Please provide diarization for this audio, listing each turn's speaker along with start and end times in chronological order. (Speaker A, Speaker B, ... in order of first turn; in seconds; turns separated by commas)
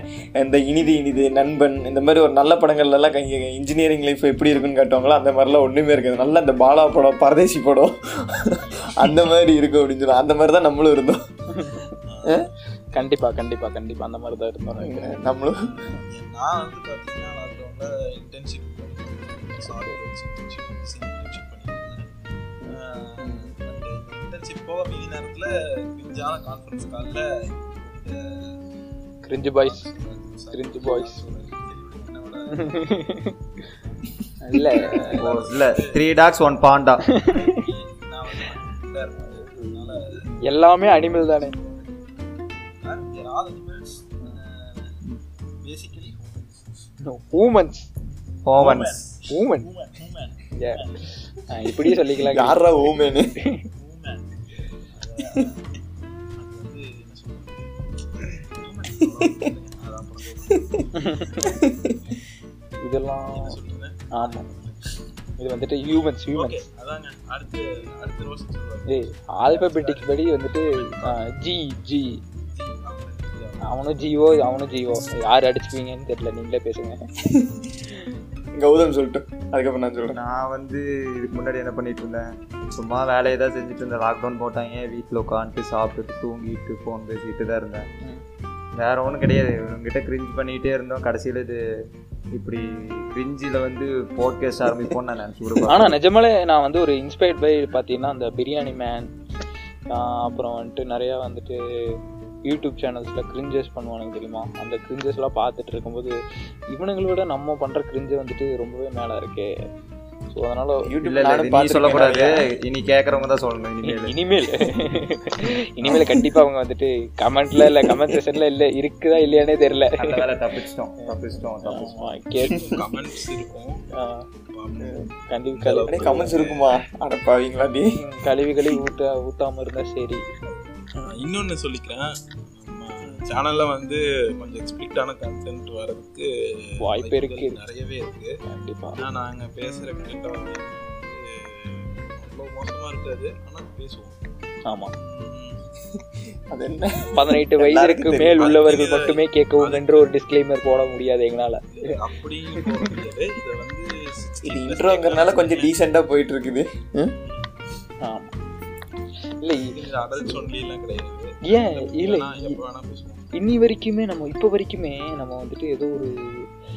Speaker A: 0.4-11.2, Speaker B: 8.4-9.0, Speaker C: 11.5-11.8, Speaker B: 12.1-13.2, Speaker C: 12.9-15.1, Speaker A: 14.8-15.6, Speaker B: 15.6-22.1, Speaker C: 19.6-20.0, Speaker C: 22.6-23.5, Speaker B: 22.7-28.5, Speaker C: 29.3-29.9, Speaker B: 29.6-32.8, Speaker C: 30.5-31.2, Speaker C: 32.6-33.3, Speaker B: 33.7-34.1, Speaker C: 34.4-35.3, Speaker B: 34.9-36.2, Speaker D: 35.1-37.0, Speaker C: 37.1-37.6, Speaker B: 37.2-42.0, Speaker C: 39.2-41.5, Speaker B: 42.8-45.0, Speaker B: 45.6-46.6, Speaker C: 47.1-47.9, Speaker D: 48.5-49.0, Speaker B: 48.6-51.0, Speaker C: 49.3-49.7, Speaker C: 50.5-50.9, Speaker C: 51.5-52.6, Speaker A: 52.2-53.3, Speaker B: 53.7-55.6, Speaker B: 56.4-61.7, Speaker A: 59.2-59.5, Speaker A: 60.5-60.8, Speaker C: 61.0-61.5, Speaker A: 61.5-62.0, Speaker C: 62.8-63.6, Speaker B: 63.3-65.0, Speaker C: 64.2-64.5, Speaker C: 65.4-66.6, Speaker B: 66.3-70.1, Speaker C: 68.9-72.2, Speaker B: 70.7-71.2, Speaker B: 72.4-73.8, Speaker C: 73.7-77.1, Speaker A: 77.2-77.6, Speaker A: 78.6-80.2, Speaker D: 80.2-87.9, Speaker D: 88.8-91.6, Speaker D: 92.3-96.0, Speaker C: 95.7-99.1, Speaker C: 99.9-101.6, Speaker C: 102.5-106.2, Speaker C: 106.7-109.5, Speaker C: 110.3-110.9, Speaker A: 110.9-112.4, Speaker D: 111.0-114.2, Speaker C: 113.9-120.2, Speaker A: 115.9-116.2, Speaker A: 117.6-118.2, Speaker D: 120.0-122.1, Speaker C: 121.1-122.8, Speaker B: 122.4-123.8, Speaker C: 123.9-124.2, Speaker B: 124.5-126.7, Speaker A: 124.8-125.1, Speaker C: 125.3-126.3, Speaker A: 125.9-128.0, Speaker C: 128.0-130.2, Speaker B: 131.0-138.3, Speaker C: 136.8-137.6, Speaker C: 138.5-139.0, Speaker B: 139.0-144.2, Speaker C: 144.7-144.9, Speaker B: 144.9-145.6, Speaker A: 146.5-148.5, Speaker C: 147.1-151.7, Speaker B: 148.4-150.1, Speaker B: 151.8-155.7, Speaker C: 152.6-152.9, Speaker A: 154.4-157.2, Speaker B: 157.2-157.6, Speaker C: 158.0-158.3, Speaker C: 159.4-159.8, Speaker B: 159.6-163.2, Speaker C: 161.5-162.6, Speaker C: 163.4-166.4